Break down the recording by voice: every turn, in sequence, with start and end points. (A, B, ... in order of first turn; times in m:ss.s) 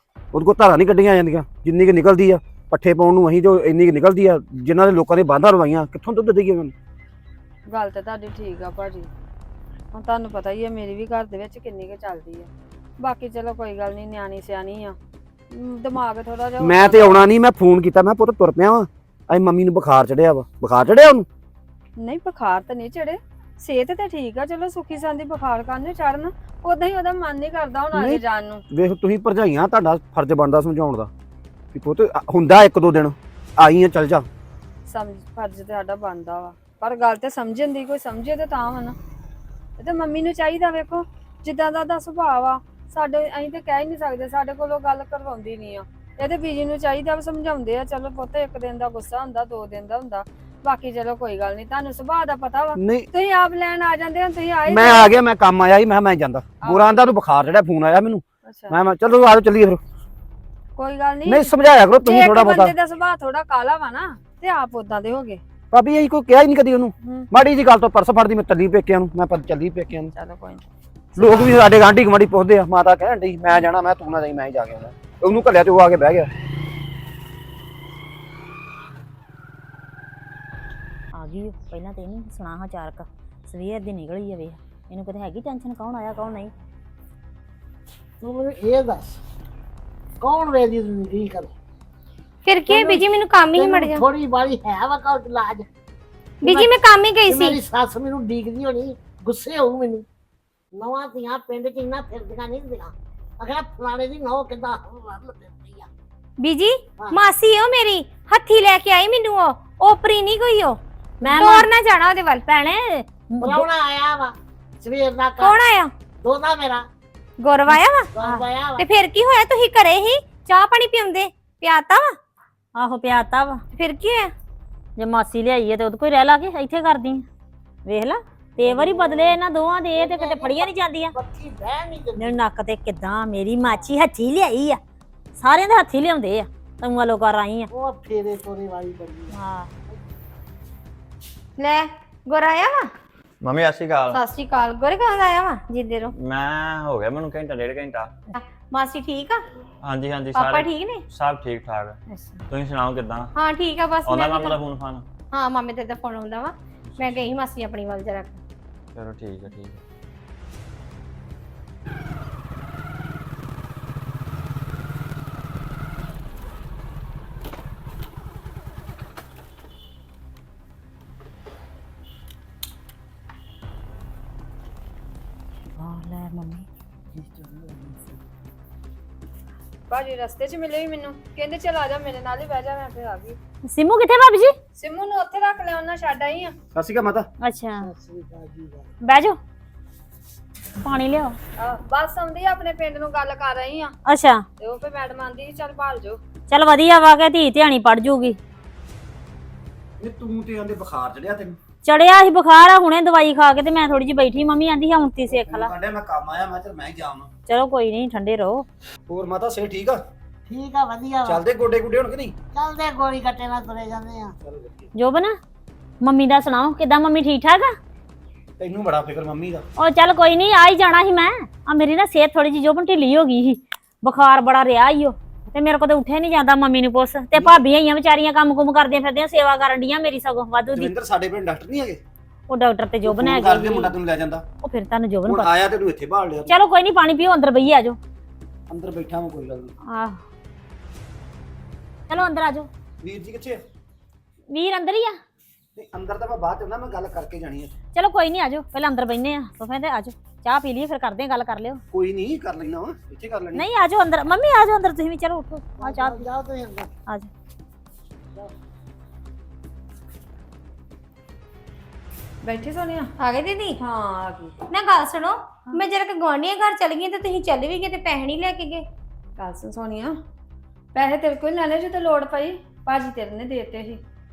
0:00.3-0:06.7 A
0:07.7-0:09.1 B
0:09.9-0:14.9 B
0:15.5-0:17.3 B
0:16.6-0:21.3 A
0:22.0-0:28.6 B
0:27.9-0:31.1 A
0:31.7-0:34.2 A
0:34.9-0:39.0 B
0:39.8-0:55.2 B
0:52.8-0:53.1 A
0:54.7-0:59.8 A
0:56.6-0:57.1 B
0:58.4-0:58.8 B
1:00.8-1:05.4 B
1:01.2-1:02.7 A
1:05.7-1:10.1 A
1:10.1-1:10.6 B
1:11.2-1:16.3 A
1:11.2-1:11.6 B
1:21.1-1:26.5 C
1:28.2-1:29.2 D
1:30.2-1:31.5 D
1:32.4-1:34.0 E
1:32.6-1:35.6 D
1:36.4-1:37.5 E
1:36.4-1:40.0 D
1:40.7-1:45.9 D
1:46.4-1:50.8 E
1:47.0-1:47.2 D
1:51.2-1:51.7 C
1:51.3-1:52.4 E
1:52.4-1:53.7 C
1:53.4-1:55.6 D
1:55.4-1:55.9 E
1:56.2-1:56.8 D
1:57.4-1:58.1 E
1:58.1-1:58.9 D
1:58.8-2:02.2 E
2:02.7-2:03.6 C
2:03.7-2:04.3 E
2:05.0-2:07.2 C
2:07.8-2:11.1 C
2:08.6-2:12.4 D
2:12.2-2:14.8 C
2:15.4-2:17.7 C
2:17.7-2:19.4 D
2:19.3-2:19.7 C
2:21.6-2:22.9 E
2:23.4-2:24.2 F
2:24.1-2:26.1 E
2:26.1-2:28.1 F
2:28.3-2:29.4 E
2:29.8-2:32.0 F
2:30.3-2:31.0 E
2:32.1-2:32.4 E
2:32.5-2:33.3 F
2:33.3-2:34.6 E
2:34.0-2:35.0 F
2:35.3-2:38.4 E
2:36.9-2:37.3 F
2:38.9-2:39.8 F
2:55.8-2:56.7 C
2:57.2-2:58.2 D
2:59.9-3:03.4 B
3:03.6-3:04.5 C
3:04.8-3:06.5 B
3:06.7-3:07.3 A
3:07.4-3:07.9 C
3:07.8-3:08.9 D
3:09.0-3:09.4 C
3:10.8-3:11.4 C
3:11.6-3:13.9 B
3:14.0-3:14.4 C
3:14.6-3:16.2 B
3:16.5-3:18.4 C
3:20.0-3:21.6 A
3:21.8-3:25.7 C
3:25.3-3:27.3 A
3:27.5-3:28.6 C
3:29.1-3:30.0 A
3:30.5-3:31.4 D
3:31.2-3:32.4 A
3:32.5-3:34.3 D
3:34.4-3:34.9 A
3:34.9-3:35.3 C
3:36.0-3:37.7 C
3:38.6-3:39.6 A
3:39.8-3:50.9 C
3:47.3-3:47.6 A
3:50.7-3:52.0 A
3:52.5-3:53.9 C
3:53.0-3:54.4 A
3:54.6-3:55.5 C
3:55.2-3:56.6 A
3:56.5-3:58.0 C
3:58.7-3:59.7 A
3:59.9-4:00.2 C
4:02.1-4:02.7 C
4:03.0-4:03.6 A
4:04.5-4:05.2 C
4:05.8-4:07.7 A
4:07.9-4:11.8 C
4:11.9-4:13.6 A
4:13.5-4:16.3 C
4:15.8-4:16.9 D
4:22.4-4:23.1 B
4:23.2-4:23.8 E
4:23.8-4:24.5 B
4:24.7-4:28.8 E
4:29.4-4:30.1 B
4:30.9-4:34.0 B